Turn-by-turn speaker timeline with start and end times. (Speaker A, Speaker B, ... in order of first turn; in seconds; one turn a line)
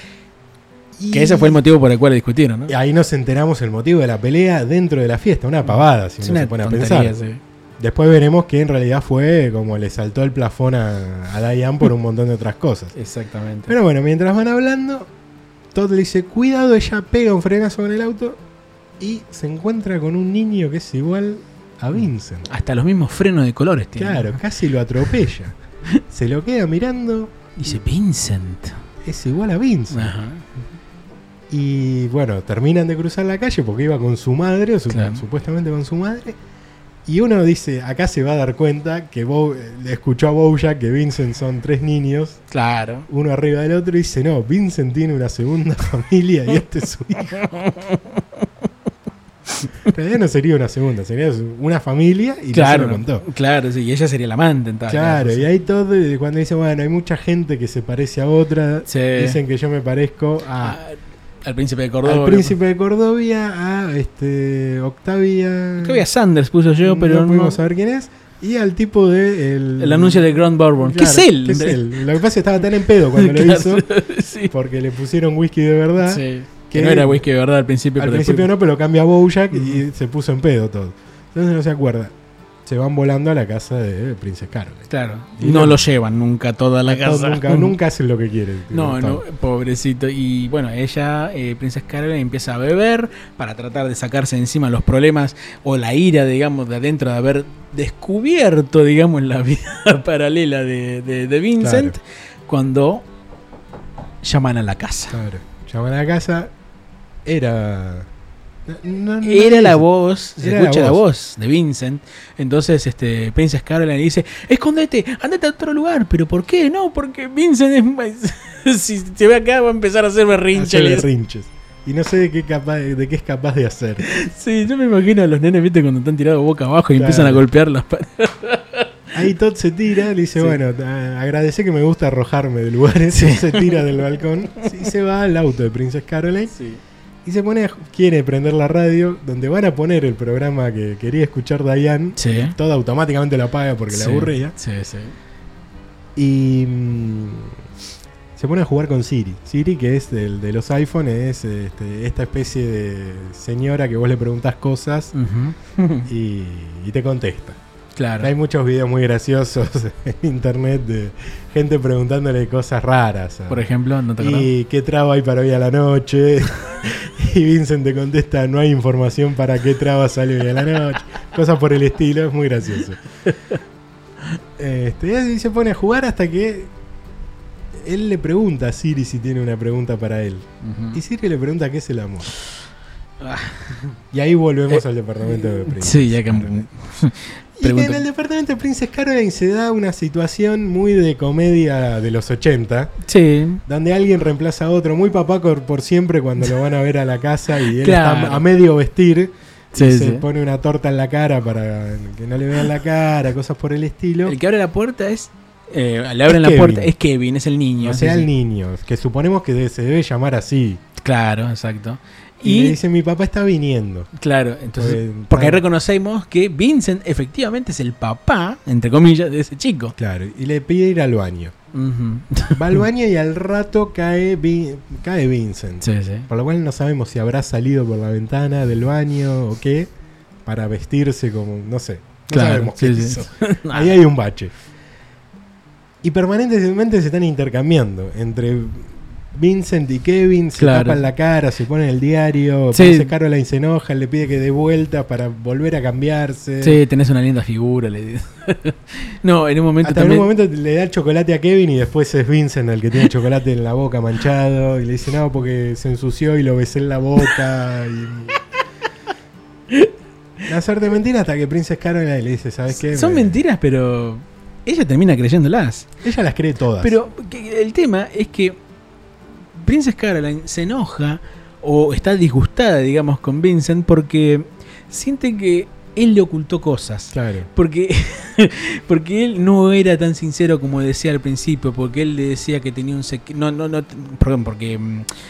Speaker A: 0.9-1.6
Speaker B: 1.1-2.7
Speaker A: 2.7-7.1
Speaker B: 6.2-7.4
Speaker A: 7.8-12.9
Speaker B: 12.9-13.7
Speaker A: 13.7-15.1
Speaker A: 15.7-18.4
Speaker A: 19.0-22.5
Speaker B: 22.5-24.4
Speaker A: 24.0-25.6
Speaker A: 26.1-27.3
Speaker B: 27.6-28.8
Speaker A: 29.0-30.1
Speaker B: 29.9-30.5
Speaker A: 31.5-36.4
Speaker B: 34.9-35.2
Speaker A: 37.0-42.4
Speaker B: 42.5-43.1
Speaker A: 43.1-47.5
Speaker B: 47.3-48.5
Speaker A: 49.9-53.2
Speaker B: 52.5-55.5
Speaker A: 54.9-60.8
Speaker B: 58.9-59.4
Speaker B: 60.6-62.6
Speaker A: 62.0-66.0
Speaker B: 65.8-67.6
Speaker A: 66.8-73.9
Speaker B: 69.8-72.1
Speaker B: 73.1-74.5
Speaker A: 74.5-77.2
Speaker B: 76.0-78.5
Speaker A: 78.0-82.1
Speaker B: 79.5-79.8
Speaker A: 82.7-84.9
Speaker B: 84.9-87.7
Speaker A: 85.4-85.8
Speaker A: 86.9-89.2
Speaker B: 88.7-103.0
Speaker A: 101.6-102.0
Speaker B: 104.2-105.2
Speaker A: 105.1-106.5
Speaker A: 107.2-108.1
Speaker A: 108.7-109.8
Speaker B: 109.2-121.1
Speaker A: 110.4-111.0
Speaker A: 120.5-124.0
Speaker B: 124.0-128.9
Speaker A: 126.9-127.4
Speaker A: 129.1-136.5
Speaker B: 133.1-133.9
Speaker B: 136.5-136.8
Speaker A: 137.2-144.5
Speaker B: 142.2-142.5
Speaker B: 143.9-145.1
Speaker A: 146.2-147.6
Speaker A: 148.3-155.1
Speaker B: 155.1-156.1
Speaker A: 156.1-157.6
Speaker B: 157.9-158.3
Speaker A: 158.2-173.0
Speaker B: 163.5-164.5
Speaker B: 173.3-173.6
Speaker A: 174.6-176.7
Speaker A: 177.8-182.3
Speaker B: 180.6-181.0
Speaker B: 183.2-183.9
Speaker A: 184.1-186.7
Speaker B: 184.7-188.0
Speaker A: 187.6-192.9
Speaker B: 193.1-193.6
Speaker A: 193.7-204.3
Speaker B: 197.7-198.4
Speaker B: 199.7-200.2
Speaker B: 204.2-208.3
Speaker A: 206.3-206.9
Speaker A: 207.8-210.8
Speaker B: 211.0-212.8
Speaker A: 212.4-214.1
Speaker B: 214.2-219.9
Speaker A: 214.7-215.6
Speaker A: 220.0-221.5
Speaker B: 221.7-222.8
Speaker A: 222.5-229.9
Speaker B: 225.8-226.3
Speaker A: 230.4-234.5
Speaker B: 232.3-234.0
Speaker A: 236.0-246.8
Speaker B: 240.6-241.0
Speaker B: 242.7-243.1
Speaker B: 246.6-250.3
Speaker A: 249.8-258.4
Speaker A: 260.4-263.4
Speaker B: 262.7-265.9
Speaker A: 266.0-266.9
Speaker B: 266.8-268.6
Speaker B: 269.6-285.1
Speaker A: 277.1-277.5